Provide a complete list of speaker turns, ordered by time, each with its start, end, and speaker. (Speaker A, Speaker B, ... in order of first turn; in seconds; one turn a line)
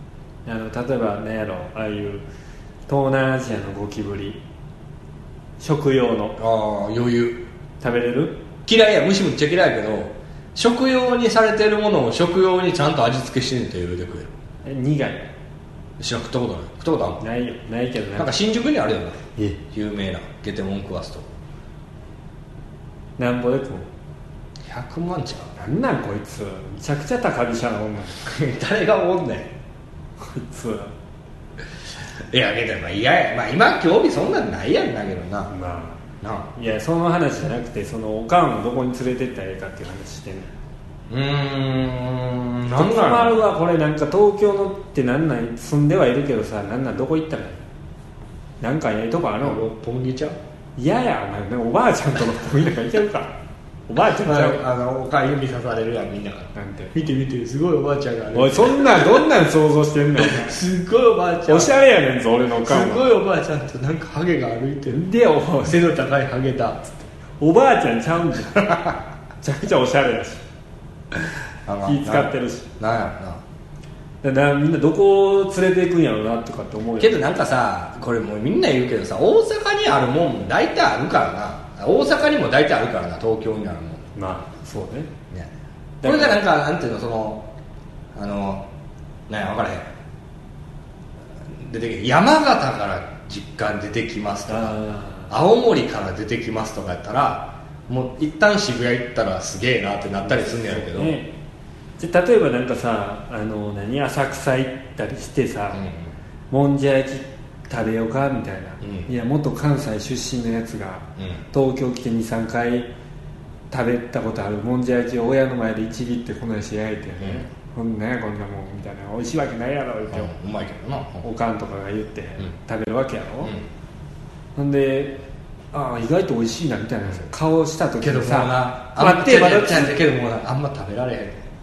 Speaker A: 0.5-2.2
Speaker A: 2.9-4.4
Speaker A: 5.6-6.4
Speaker B: 6.4-7.4
Speaker A: 7.8-8.4
Speaker B: 8.7-14.3
Speaker A: 14.6-15.2
Speaker B: 16.0-17.2
Speaker A: 17.2-18.3
Speaker B: 18.2-21.3
Speaker A: 23.2-23.9
Speaker B: 24.6-25.5
Speaker A: 25.6-28.2
Speaker B: 28.2-29.5
Speaker A: 30.2-30.9
Speaker B: 32.3-35.5
Speaker A: 35.5-36.0
Speaker B: 36.2-36.5
Speaker A: 36.5-40.5
Speaker B: 41.1-43.4
Speaker A: 42.7-47.6
Speaker A: 48.6-49.6
Speaker B: 49.4-50.4
Speaker A: 50.8-53.3
Speaker A: 53.9-54.6
Speaker B: 54.2-59.2
Speaker A: 56.5-56.9
Speaker A: 58.3-60.6
Speaker B: 60.2-61.8
Speaker A: 61.5-63.0
Speaker B: 62.6-65.0
Speaker A: 64.9-65.8
Speaker B: 65.6-66.9
Speaker A: 67.4-68.7
Speaker B: 68.6-69.0
Speaker A: 69.4-70.4
Speaker B: 71.7-73.4
Speaker A: 71.8-72.7
Speaker A: 74.2-77.2
Speaker B: 77.0-84.1
Speaker A: 84.1-85.1
Speaker A: 86.0-86.4
Speaker B: 86.0-87.5
Speaker B: 88.1-88.7
Speaker B: 89.3-89.9
Speaker B: 91.5-94.8
Speaker A: 94.5-95.3
Speaker B: 95.3-101.2
Speaker A: 100.2-101.3
Speaker A: 102.0-105.8
Speaker B: 105.7-106.1
Speaker A: 106.5-112.9
Speaker B: 108.8-109.1
Speaker A: 113.7-120.3
Speaker B: 117.2-117.5
Speaker B: 120.1-121.2
Speaker A: 121.2-123.5
Speaker A: 124.5-130.0
Speaker B: 128.0-131.4